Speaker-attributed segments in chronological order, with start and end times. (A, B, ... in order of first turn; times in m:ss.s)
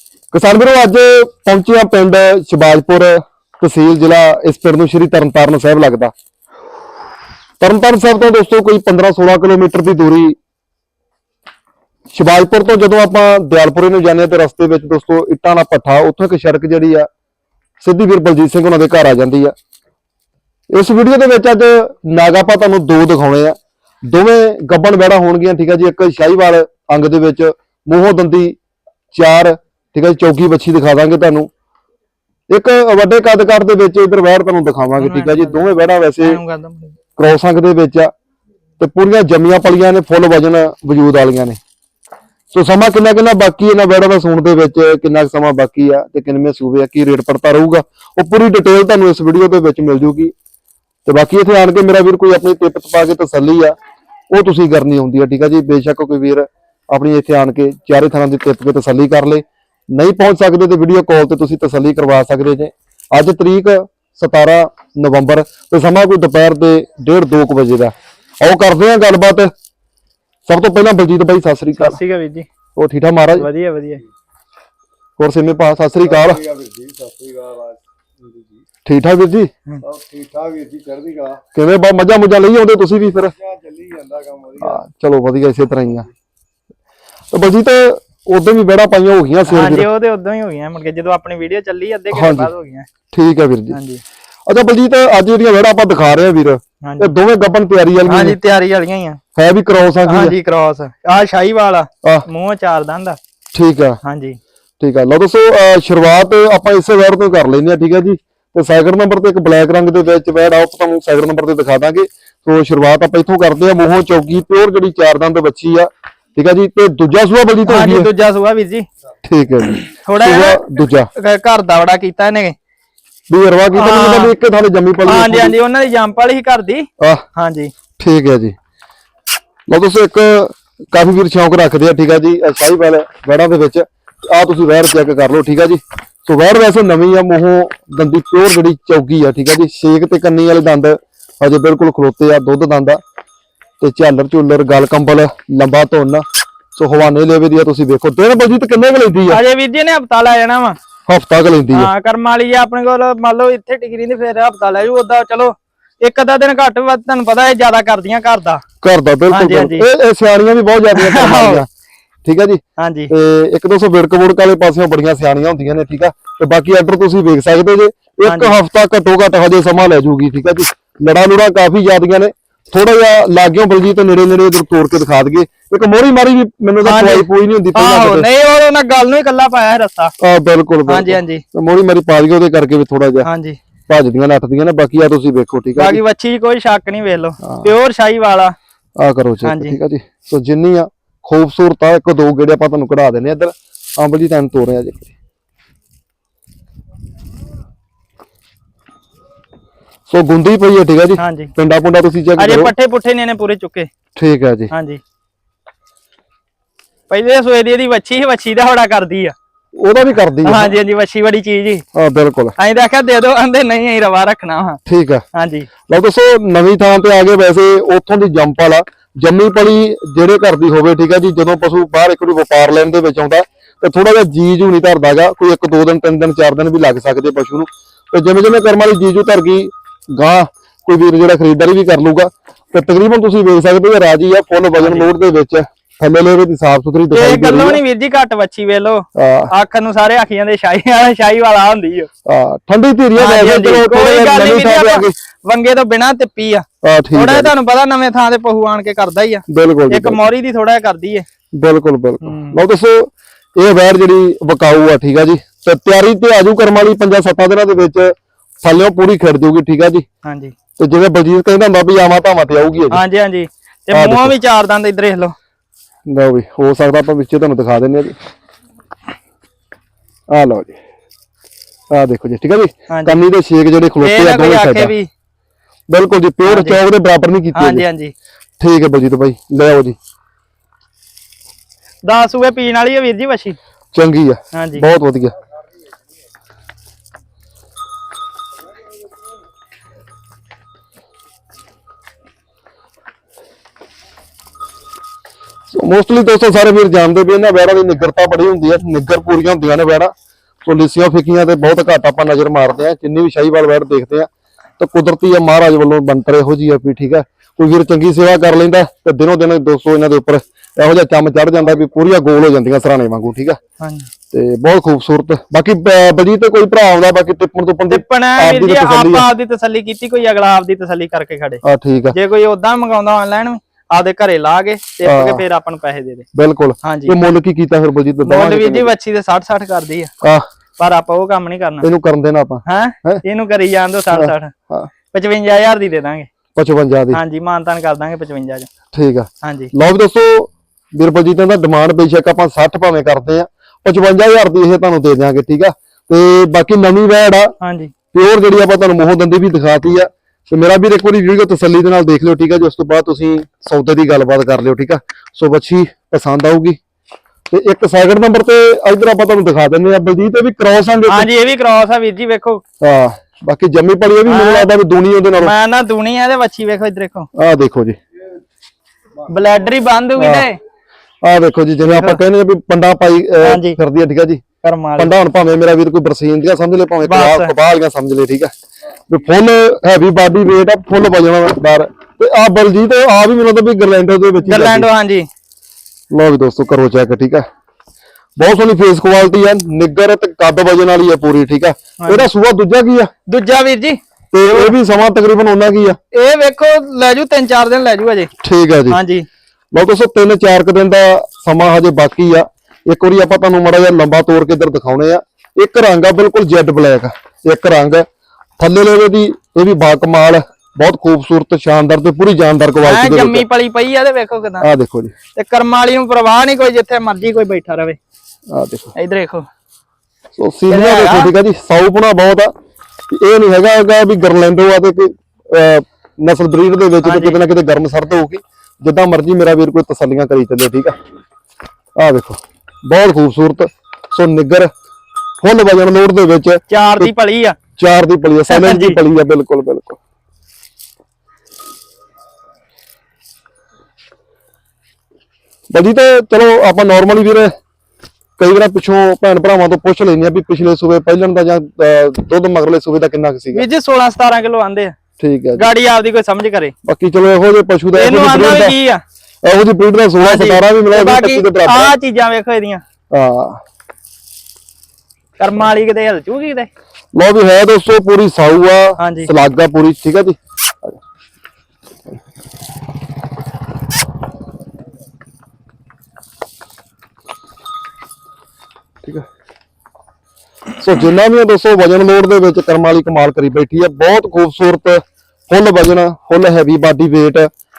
0:00.3-0:06.1 A
0:07.6-0:10.4 A
0:12.1-0:17.1 A
0:17.8-0:19.5 A
0:20.7-0:28.6 A
0:29.1-0:31.5 A
0:32.5-0:36.4 A
0:35.0-0:37.0 B
0:37.2-0:38.1 A
0:38.8-0:41.6 A
0:42.5-0:50.3 A
0:51.0-0:53.7 A
0:54.3-1:09.5 A
1:10.5-1:12.0 A
1:11.8-1:12.4 B
1:12.8-1:13.5 A
1:13.4-1:14.0 B
1:15.2-1:16.4 A
1:16.0-1:18.6 C
1:18.8-1:19.5 A
1:19.8-1:21.4 C
1:21.5-1:23.3 A
1:23.2-1:24.8 C
1:24.6-1:26.1 A
1:27.3-1:29.9 A
1:29.5-1:32.9 B
1:32.1-1:32.5 A
1:33.1-1:33.8 A
1:33.7-1:34.0 B
1:34.5-1:38.4 A
1:36.8-1:37.1 B
1:38.1-1:39.2 B
1:39.3-1:40.4 A
1:40.0-1:43.2 B
1:43.5-1:44.0 A
1:44.0-1:44.4 B
1:44.8-1:58.1 A
1:57.7-1:58.9 B
1:59.2-2:01.1 A
1:59.9-2:02.6 B
2:03.3-2:05.5 A
2:03.7-2:04.3 B
2:05.0-2:07.7 B
2:08.0-2:08.5 A
2:09.7-2:23.0 A
2:23.8-2:29.4 A
2:29.3-2:30.8 B
2:31.1-2:31.9 A
2:31.7-2:38.6 B
2:38.8-2:41.7 A
2:39.3-2:39.8 B
2:40.9-2:41.6 B
2:42.2-2:58.3 A
2:42.8-2:43.1 B
2:48.2-2:48.5 B
2:56.8-3:00.1 B
3:00.2-3:03.3 A
3:00.9-3:01.4 B
3:03.2-3:03.6 B
3:03.9-3:06.0 A
3:05.8-3:08.5 B
3:07.4-3:07.7 A
3:09.0-3:15.1 A
3:09.4-3:09.8 B
3:20.1-3:22.7 A
3:21.2-3:21.5 B
3:22.4-3:23.9 B
3:24.2-3:24.7 A
3:24.7-3:25.0 B
3:27.1-3:29.3 B
3:29.7-3:30.8 A
3:30.4-3:31.8 B
3:31.9-3:32.5 A
3:32.6-3:34.8 B
3:34.8-3:35.2 A
3:35.3-3:35.7 B
3:35.9-3:57.8 A
3:54.8-3:55.1 B
3:57.1-4:02.1 B
3:59.2-3:59.5 A
4:02.2-4:05.1 A
4:03.2-4:11.2 B
4:06.8-4:07.5 A
4:09.5-4:10.2 A
4:11.5-4:20.0 A
4:12.2-4:12.6 B
4:20.2-4:20.5 B
4:20.8-4:23.0 A
4:22.9-4:25.3 B
4:23.9-4:24.3 A
4:26.0-4:28.2 A
4:30.3-4:30.8 A
4:31.9-4:34.9 A
4:32.9-4:33.2 B
4:34.0-4:35.1 B
4:35.9-4:37.8 A
4:36.4-4:36.8 B
4:37.5-4:38.1 B
4:38.6-4:40.0 A
4:42.0-4:43.6 B
4:43.9-4:45.3 A
4:44.5-4:44.8 B
4:55.7-5:00.1 A
5:00.6-5:04.3 A
5:04.8-5:13.6 A
5:13.8-5:14.1 B
5:14.3-5:19.2 A
5:17.9-5:21.6 B
5:21.6-5:22.2 A
5:22.1-5:26.2 B
5:25.0-5:25.4 A
5:26.3-5:28.9 A
5:26.8-5:27.2 B
5:28.2-5:30.1 B
5:30.8-5:31.9 B
5:31.8-5:33.2 A
5:32.6-5:34.5 B
5:34.1-5:34.9 A
5:35.1-5:36.3 B
5:36.5-5:37.2 A
5:37.1-5:38.7 B
5:38.9-5:47.6 A
5:39.4-5:39.7 B
5:47.6-5:47.9 B
5:48.1-5:56.8 A
5:57.5-6:01.3 A
6:01.1-6:02.6 B
6:02.8-6:05.5 A
6:04.2-6:04.7 B
6:05.4-6:07.3 B
6:07.3-6:08.0 A
6:09.3-6:10.6 B
6:10.2-6:10.5 A
6:11.2-6:14.4 A
6:11.8-6:12.2 B
6:13.4-6:13.8 B
6:14.6-6:15.1 B
6:15.0-6:18.5 A
6:17.0-6:17.5 B
6:19.1-6:24.9 A
6:24.4-6:25.3 B
6:26.1-6:27.4 A
6:28.4-6:33.1 A
6:32.0-6:32.3 B
6:33.3-6:34.0 B
6:34.3-6:36.0 A
6:36.1-6:38.3 B
6:38.4-6:39.0 A
6:38.9-6:39.3 B
6:39.7-6:48.1 A
6:48.6-6:53.4 A
6:52.8-6:54.7 B
6:54.6-6:55.1 A
6:55.3-6:58.0 B
6:58.5-6:58.9 A
6:58.9-6:59.5 B
7:00.3-7:02.5 A
7:00.7-7:01.3 B
7:03.1-7:10.9 A
7:07.0-7:07.4 B
7:12.0-7:14.7 A
7:15.4-7:17.1 A
7:16.7-7:17.6 B
7:17.8-7:20.0 A
7:18.5-7:19.0 B
7:25.7-7:27.5 A
7:28.4-7:33.6 A
7:33.5-7:34.9 B
7:35.2-7:35.7 A
7:35.6-7:36.7 B
7:36.8-7:38.7 A
7:37.9-7:39.0 B
7:39.4-7:41.9 A
7:40.2-7:42.8 B
7:43.1-7:43.6 A
7:45.4-7:46.7 B
7:47.1-7:50.9 A
7:49.0-7:49.3 B
8:00.8-8:07.5 A